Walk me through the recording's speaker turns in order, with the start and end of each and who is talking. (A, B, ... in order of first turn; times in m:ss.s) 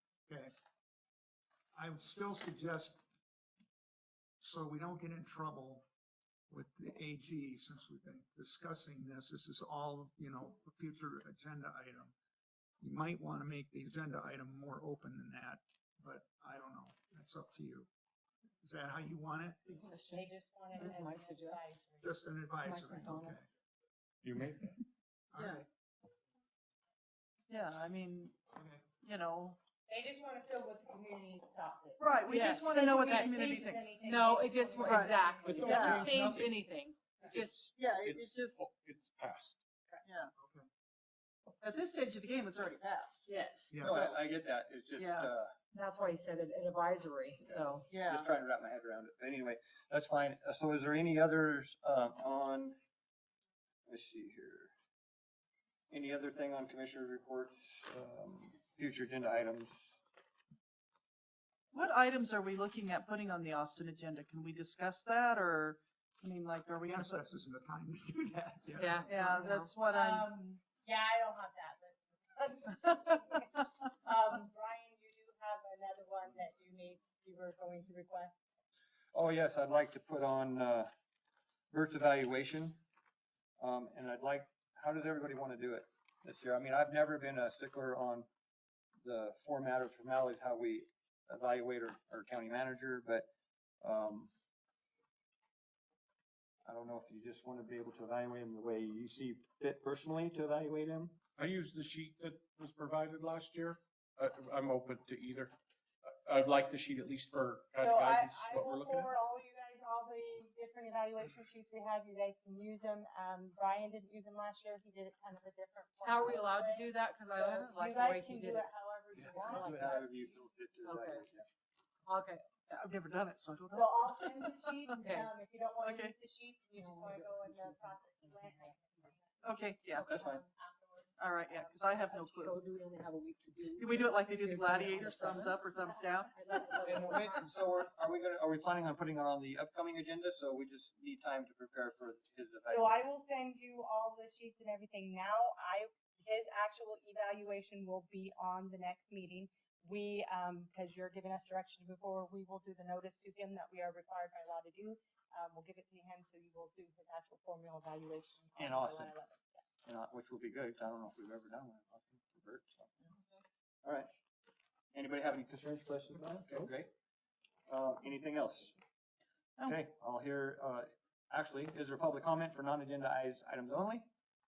0:00.3-0:00.5 A
0:01.7-0:03.0 A
0:04.4-0:05.8 A
0:06.5-0:12.1 A
0:12.8-0:17.9 A
0:18.6-0:19.6 A
0:19.6-0:21.6 B
0:20.0-0:22.1 C
0:22.0-0:23.5 A
0:22.6-0:23.4 B
0:24.3-0:24.7 A
0:25.3-0:25.7 A
0:25.4-0:25.6 D
0:27.5-0:28.4 D
0:28.5-0:28.8 A
0:29.0-0:29.6 D
0:29.9-0:36.1 C
0:32.0-0:34.0 D
0:32.2-0:33.4 B
0:34.0-0:37.7 B
0:34.8-0:36.1 D
0:35.4-0:36.6 E
0:37.2-0:39.6 E
0:37.8-0:38.6 D
0:40.0-0:40.3 D
0:40.4-0:40.7 A
0:41.6-0:43.3 D
0:43.3-0:43.8 B
0:43.7-0:44.2 A
0:43.8-0:45.5 F
0:45.0-0:45.3 D
0:45.7-0:47.9 B
0:47.4-0:52.8 F
0:47.9-0:48.3 D
0:53.9-0:54.7 F
0:55.9-1:00.0 F
1:01.7-1:07.2 D
1:06.8-1:09.4 A
1:08.8-1:09.7 B
1:09.1-1:10.6 D
1:09.9-1:18.4 C
1:19.1-1:20.9 F
1:21.7-1:22.8 F
1:23.6-1:28.3 F
1:29.0-1:33.3 F
1:33.8-1:34.3 F
1:36.6-1:41.2 F
1:41.4-1:45.6 E
1:46.1-1:49.1 E
1:47.8-2:00.4 C
1:56.0-1:58.7 B
1:59.2-2:00.0 B
1:59.4-2:01.5 F
2:00.8-2:01.3 B
2:02.1-2:02.9 B
2:02.7-2:04.7 D
2:03.7-2:09.3 C
2:04.9-2:05.3 B
2:05.8-2:06.1 D
2:06.8-2:07.8 B
2:09.4-2:10.1 D
2:10.0-2:12.0 C
2:10.1-2:10.4 F
2:11.2-2:12.6 D
2:12.1-2:15.7 B
2:13.8-2:16.5 D
2:16.0-2:17.2 C
2:16.3-2:17.4 B
2:16.8-2:22.9 F
2:22.7-2:39.5 C
2:38.6-2:39.1 F
2:39.8-2:42.9 F
2:43.8-2:44.1 F
2:44.9-2:46.9 F
2:47.7-2:48.8 F
2:49.6-2:54.1 F